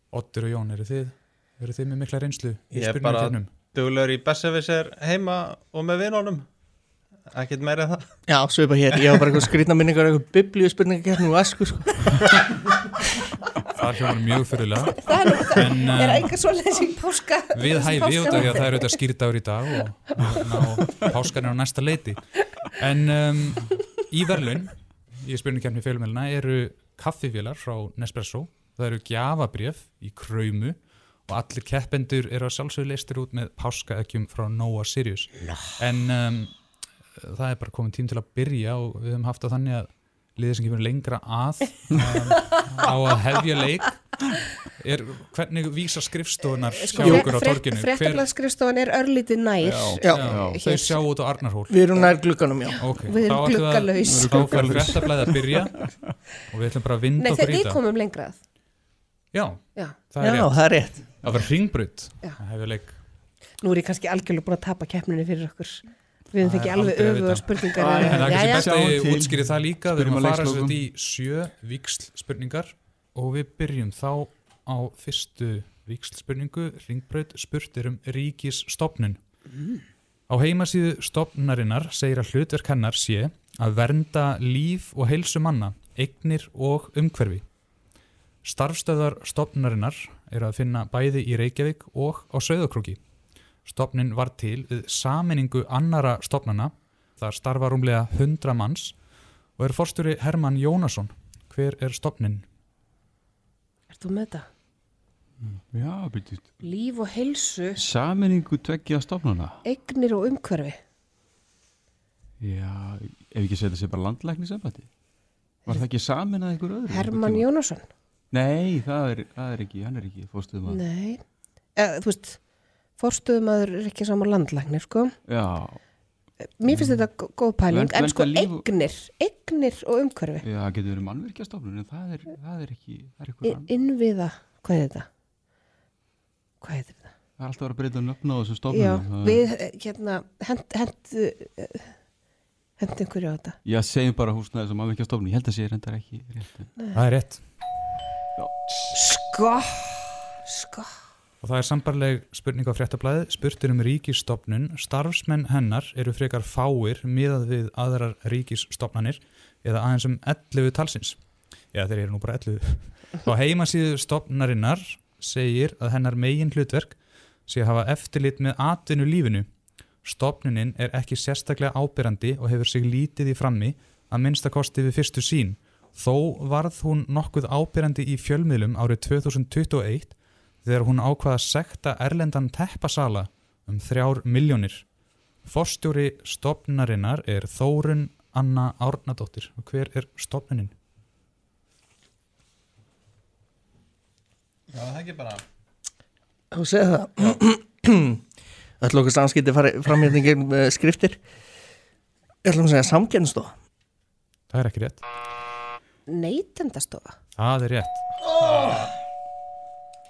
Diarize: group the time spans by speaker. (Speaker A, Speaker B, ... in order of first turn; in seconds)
Speaker A: 0.1-3.5, 13.8-16.3, 17.5-44.2, 44.8-48.3, 50.0-52.1, 52.8-57.8, 59.3-63.0, 66.4-79.2, 80.3-87.7, 88.4-93.0, 93.6-102.5, 146.9-147.4, 151.4-190.7, 204.5-205.0, 207.4-208.1
Speaker B: 2.7-6.5, 7.2-8.1, 194.7-195.4
Speaker C: 8.3-12.2, 51.7-52.8, 60.1-61.3, 196.5-198.2, 198.8-201.2, 202.4-203.5
Speaker D: 15.1-19.0, 46.7-51.0, 52.9-54.6, 57.2-58.4, 59.8-60.0, 63.6-68.8, 103.9-104.5, 106.6-107.8, 109.6-110.8, 116.9-118.0, 120.7-125.2, 126.4-130.4, 133.4-135.1, 136.6-137.1, 138.7-142.0, 142.8-143.6, 148.9-150.9, 206.1-207.2
Speaker E: 49.6-50.7, 54.0-54.9, 67.8-70.9, 105.4-106.6, 107.8-109.6, 112.4-117.7, 118.3-120.8, 125.3-128.8, 130.4-133.8, 137.4-139.5, 143.6-146.7, 148.4-149.2